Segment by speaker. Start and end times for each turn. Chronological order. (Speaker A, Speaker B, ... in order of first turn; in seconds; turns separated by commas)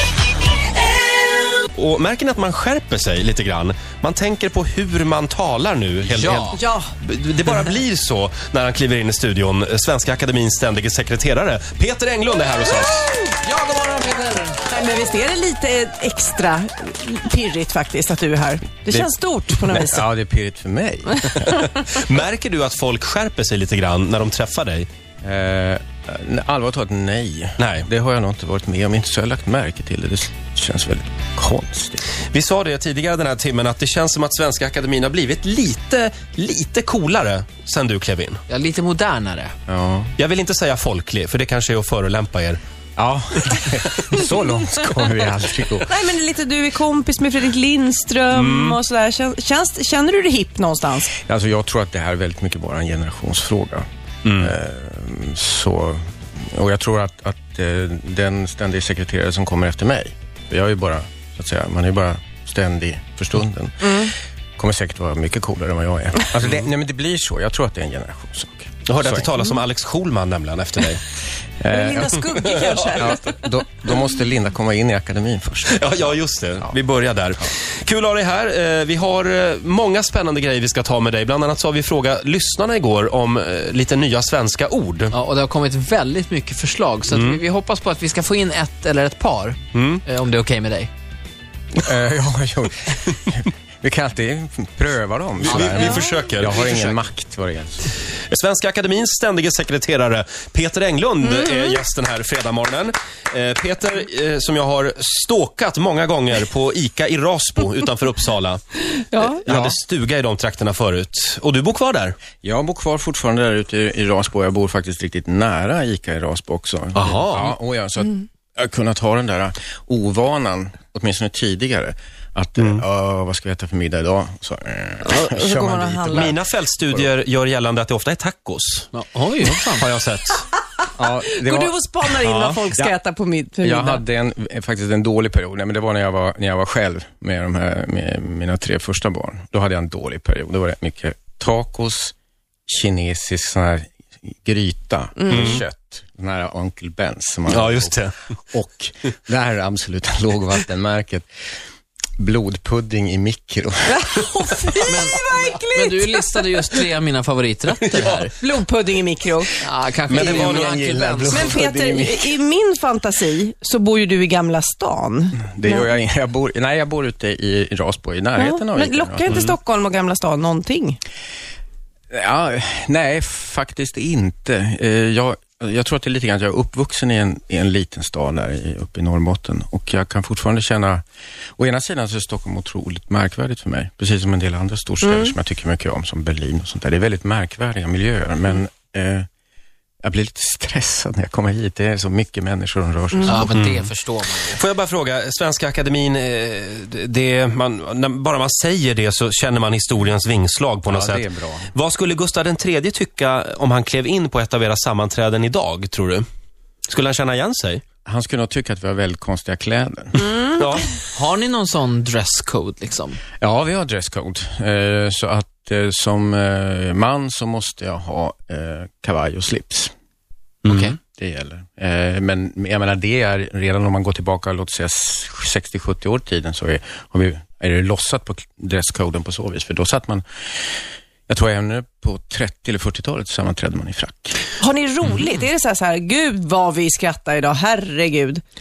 Speaker A: 1.8-13.2, Speaker B: 6.1-6.6, Speaker C: 6.5-6.9, Speaker B: 13.3-14.6, Speaker C: 14.7-20.1, Speaker D: 19.7-21.6, Speaker A: 21.6-24.9, Speaker D: 25.2-32.1, Speaker A: 27.6-27.9, Speaker A: 32.3-38.4, Speaker B: 38.5-39.5, Speaker D: 39.7-40.1, Speaker A: 40.2-42.6, Speaker D: 43.0-45.9, Speaker C: 45.9-51.2, Speaker A: 48.3-48.8, Speaker D: 51.2-69.3, Speaker A: 54.2-54.5, Speaker C: 63.9-64.1, Speaker A: 68.9-71.0, Speaker D: 71.6-72.2, Speaker C: 71.7-73.3, Speaker A: 72.4-73.1, Speaker D: 73.0-76.8, Speaker A: 75.7-85.1, Speaker B: 85.1-90.9, Speaker A: 87.1-87.4, Speaker A: 89.7-90.0, Speaker D: 91.8-97.9, Speaker A: 95.4-96.7, Speaker B: 95.5-96.9, Speaker A: 98.3-112.2, Speaker C: 101.2-101.7, Speaker C: 109.1-109.4, Speaker D: 109.5-109.8, Speaker D: 112.4-126.4, Speaker A: 117.0-117.5, Speaker A: 122.6-122.8, Speaker C: 125.0-126.4, Speaker A: 126.1-128.9, Speaker B: 128.9-129.9, Speaker A: 129.5-130.4, Speaker D: 131.0-131.8, Speaker C: 131.3-134.0, Speaker A: 132.2-132.6, Speaker D: 133.6-142.1, Speaker D: 142.7-148.0, Speaker C: 145.2-145.6, Speaker A: 145.3-145.6, Speaker A: 147.5-148.2, Speaker D: 148.5-151.3, Speaker D: 152.2-154.2, Speaker C: 153.9-156.5, Speaker B: 154.8-158.3, Speaker A: 157.9-158.3, Speaker C: 158.4-159.6, Speaker B: 159.6-161.6, Speaker A: 160.1-160.8, Speaker D: 160.1-162.4, Speaker C: 161.3-165.9, Speaker D: 165.4-169.4, Speaker C: 168.4-171.0, Speaker D: 172.1-181.0, Speaker D: 181.6-189.3, Speaker C: 185.0-185.3, Speaker D: 190.0-193.6, Speaker B: 193.3-194.6, Speaker A: 193.5-193.9, Speaker A: 194.4-206.2, Speaker D: 200.9-201.7, Speaker A: 206.9-207.8, Speaker D: 208.1-210.3, Speaker C: 210.2-210.5, Speaker A: 210.5-211.0, Speaker B: 211.2-213.2, Speaker D: 213.4-219.9, Speaker A: 220.6-221.0, Speaker D: 220.7-230.2, Speaker D: 231.3-234.4, Speaker C: 234.6-238.4